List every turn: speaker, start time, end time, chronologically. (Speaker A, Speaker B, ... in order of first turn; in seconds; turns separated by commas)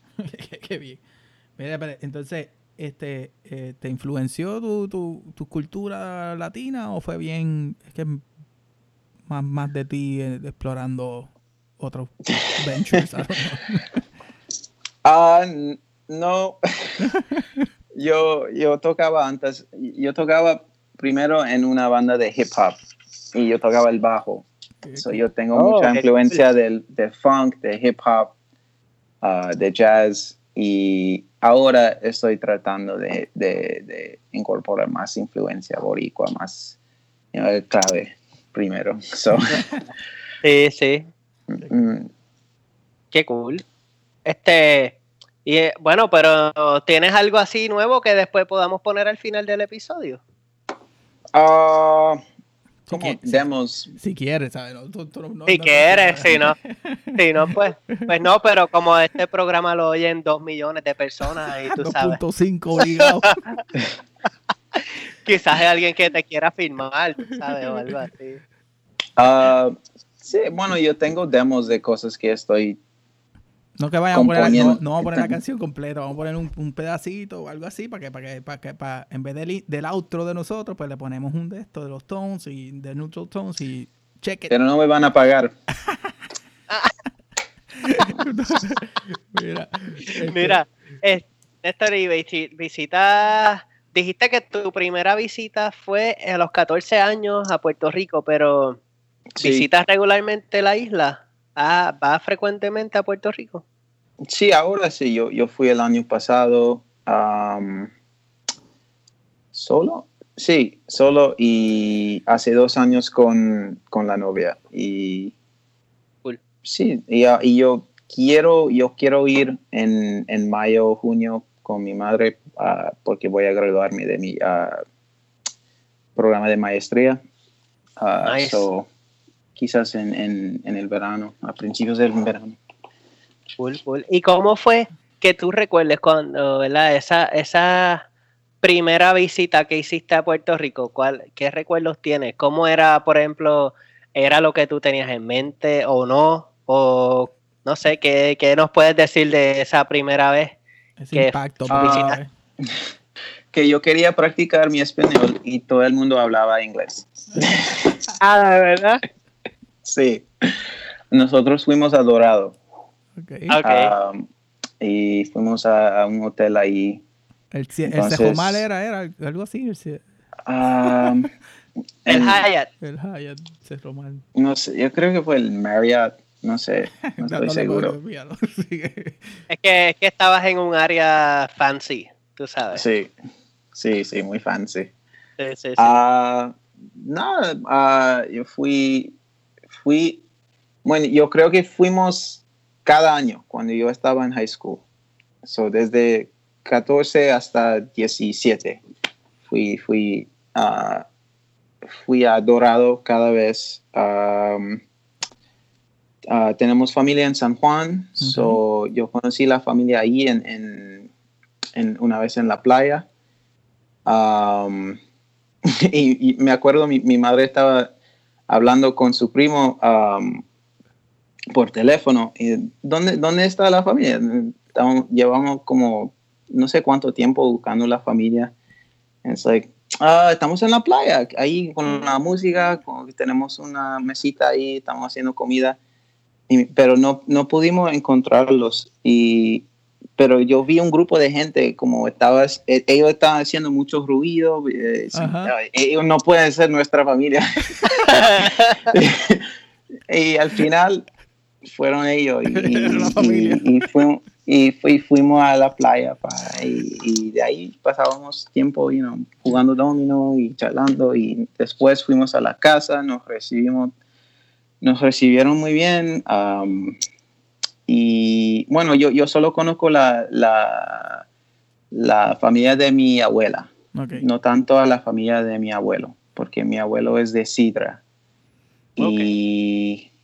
Speaker A: 0.2-1.0, Speaker A: 1.6-8.2, Speaker A: 9.3-14.0, Speaker B: 15.0-17.1, Speaker A: 17.0-17.6, Speaker B: 17.9-22.8, Speaker B: 23.3-28.3, Speaker A: 24.8-25.2, Speaker C: 25.5-26.1, Speaker B: 29.2-36.8, Speaker B: 37.3-39.6, Speaker C: 40.4-41.1, Speaker B: 41.5-42.1, Speaker C: 43.1-43.6, Speaker C: 44.2-50.2, Speaker B: 51.3-52.2, Speaker A: 52.9-58.1, Speaker B: 52.9-53.9, Speaker C: 55.5-56.5, Speaker C: 57.2-62.2, Speaker A: 61.7-63.4, Speaker C: 62.8-63.6, Speaker C: 64.8-68.4, Speaker A: 67.4-68.0, Speaker B: 69.2-72.8, Speaker A: 73.8-84.5, Speaker B: 74.1-75.3, Speaker B: 84.5-85.5, Speaker A: 85.9-86.1, Speaker A: 87.7-90.6, Speaker C: 90.1-98.8, Speaker B: 99.3-99.7, Speaker C: 99.4-103.6, Speaker B: 104.2-107.9, Speaker B: 109.5-115.3, Speaker B: 116.6-124.8, Speaker B: 126.2-127.2, Speaker B: 128.0-128.9, Speaker C: 128.2-128.7, Speaker B: 129.6-132.6, Speaker C: 133.6-138.1, Speaker C: 138.6-150.6, Speaker A: 151.0-152.3, Speaker C: 151.1-152.2, Speaker B: 151.7-152.7, Speaker B: 153.5-158.0, Speaker C: 158.2-159.0, Speaker B: 159.8-162.6, Speaker A: 163.2-163.6, Speaker C: 163.5-163.9, Speaker B: 163.6-164.3, Speaker B: 164.8-167.0, Speaker A: 167.5-170.0, Speaker B: 167.9-168.6, Speaker B: 170.4-171.3, Speaker A: 170.6-171.2, Speaker B: 172.0-172.4, Speaker C: 172.1-172.7, Speaker A: 172.8-174.2, Speaker B: 174.3-177.9, Speaker A: 177.0-179.4, Speaker C: 179.5-182.8, Speaker B: 182.7-183.1, Speaker B: 183.7-184.9, Speaker C: 185.4-185.9, Speaker B: 185.8-189.1, Speaker B: 189.8-190.2, Speaker B: 190.8-194.8, Speaker B: 195.4-198.8, Speaker B: 199.4-201.1, Speaker B: 201.9-204.8, Speaker B: 206.3-211.1, Speaker A: 208.2-208.6, Speaker B: 211.7-213.1, Speaker B: 214.1-215.0, Speaker B: 215.7-217.9, Speaker B: 218.5-220.4, Speaker B: 221.5-228.5, Speaker B: 229.2-235.8, Speaker B: 236.5-249.4, Speaker A: 245.1-245.5, Speaker C: 248.1-248.9, Speaker B: 250.1-251.1, Speaker B: 251.6-263.9, Speaker A: 252.5-253.7, Speaker B: 264.8-267.0, Speaker B: 267.9-271.2, Speaker B: 271.9-278.0, Speaker A: 273.9-274.3, Speaker B: 278.9-280.1, Speaker C: 279.0-279.3